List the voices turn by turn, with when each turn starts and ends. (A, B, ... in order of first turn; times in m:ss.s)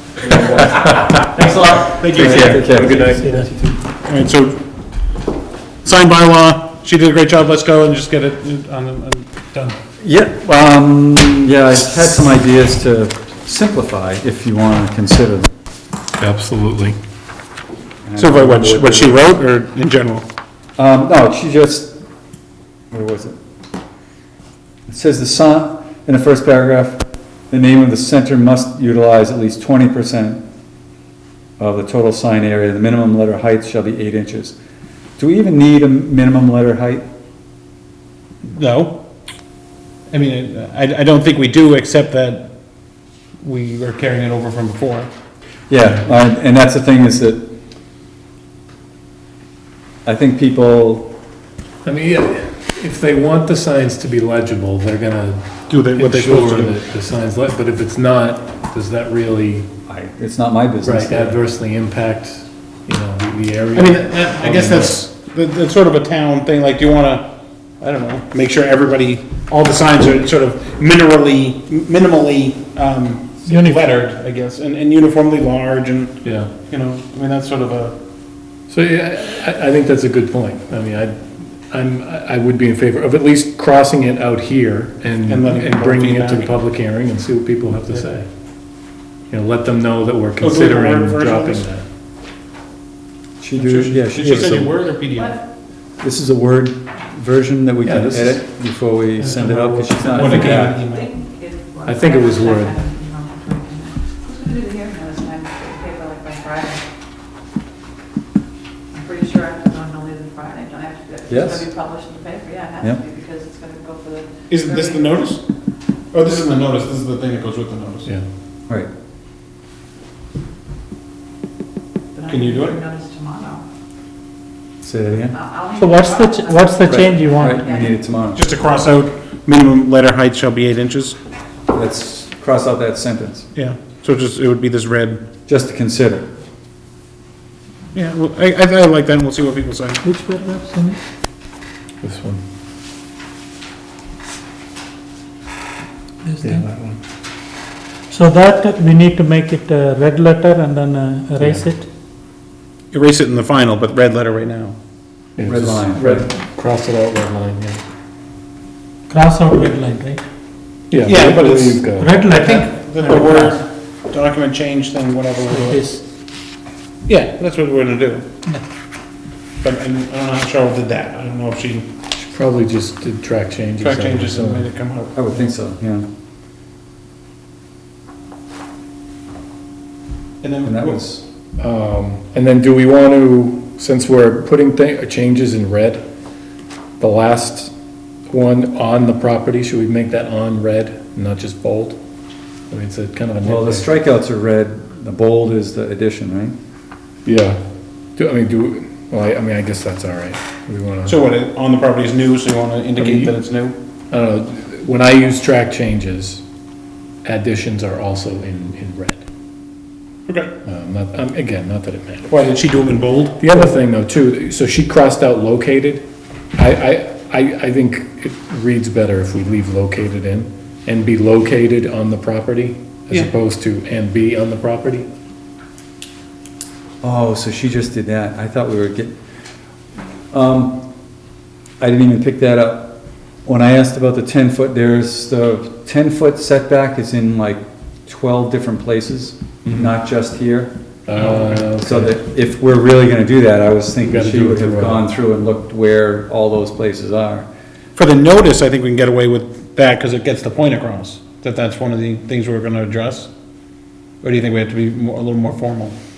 0:00.2-0:03.0 A
0:00.4-0:01.1 B
0:01.4-0:01.8 C
0:02.0-0:03.1 D
0:02.2-0:03.7 B
0:02.7-0:03.5 C
0:04.0-0:04.6 A
0:05.8-0:09.8 A
0:10.0-0:15.5 D
0:16.2-0:17.0 B
0:18.0-0:19.3 D
0:18.2-0:20.3 A
0:20.8-0:22.0 D
0:22.9-0:23.4 D
0:24.9-0:30.4 D
0:31.6-0:34.6 D
0:35.2-0:37.0 D
0:38.4-0:39.0 A
0:40.1-0:42.5 A
0:43.4-0:45.1 A
0:45.7-0:47.6 D
0:50.0-0:51.1 D
0:51.8-0:59.7 B
0:55.7-0:56.7 A
0:59.9-1:01.4 D
1:00.8-1:05.0 B
1:03.7-1:07.3 A
1:07.8-1:18.0 A
1:13.5-1:13.8 C
1:16.2-1:16.5 B
1:18.7-1:28.3 B
1:25.3-1:26.5 A
1:29.3-1:31.8 B
1:30.4-1:31.6 A
1:33.4-1:34.8 D
1:33.6-1:35.4 A
1:36.0-1:40.8 D
1:37.8-1:38.4 B
1:39.2-1:40.2 B
1:40.1-1:41.2 A
1:41.8-1:42.8 B
1:44.3-1:46.7 E
1:49.0-1:50.9 E
1:51.3-1:51.8 D
1:52.1-1:52.6 E
1:52.8-1:53.0 D
1:53.2-1:54.3 E
1:54.5-1:55.4 A
1:56.1-1:58.1 A
2:02.2-2:02.9 A
2:02.8-2:03.5 E
2:04.8-2:05.4 D
2:05.5-2:06.8 E
2:05.7-2:07.6 C
2:06.9-2:08.4 D
2:08.3-2:11.2 A
2:11.7-2:13.5 D
2:13.5-2:15.2 A
2:15.5-2:16.3 D
2:17.9-2:20.0 A
2:20.0-2:21.0 C
2:22.0-2:22.4 B
2:26.3-2:26.6 C
2:26.4-2:27.0 B
2:28.1-2:31.9 C
2:31.4-2:31.6 B
2:32.9-2:34.8 A
2:35.4-2:37.8 B
2:35.4-2:36.3 D
2:39.1-2:40.2 C
2:40.9-2:42.2 B
2:41.0-2:45.9 A
2:42.0-2:43.6 C
2:45.5-2:46.0 C
2:47.1-2:48.2 A
2:49.6-2:51.9 A
2:52.2-2:54.7 B
2:53.8-2:55.2 A
2:55.1-2:56.1 D
3:00.4-3:01.0 A
3:00.6-3:01.2 D
3:01.6-3:06.0 B
3:07.0-3:07.7 B
3:08.3-3:12.0 B
3:12.7-3:13.9 B
3:13.4-3:16.5 D
3:17.2-3:17.6 B
3:18.2-3:21.2 B
3:21.0-3:23.8 A
3:23.0-3:23.4 B
3:24.1-3:26.4 B
3:27.2-3:29.2 B
3:30.3-3:30.5 A
3:30.6-3:32.3 B
3:32.3-3:33.4 A
3:33.4-3:45.1 B
3:47.0-3:49.2 D
3:50.3-3:50.9 D
3:51.8-4:00.7 D
3:59.6-3:59.9 B
4:01.0-4:02.2 B
4:01.2-4:01.6 A
4:01.3-4:07.5 D
4:04.0-4:05.0 B
4:08.0-4:13.3 A
4:14.2-4:15.9 A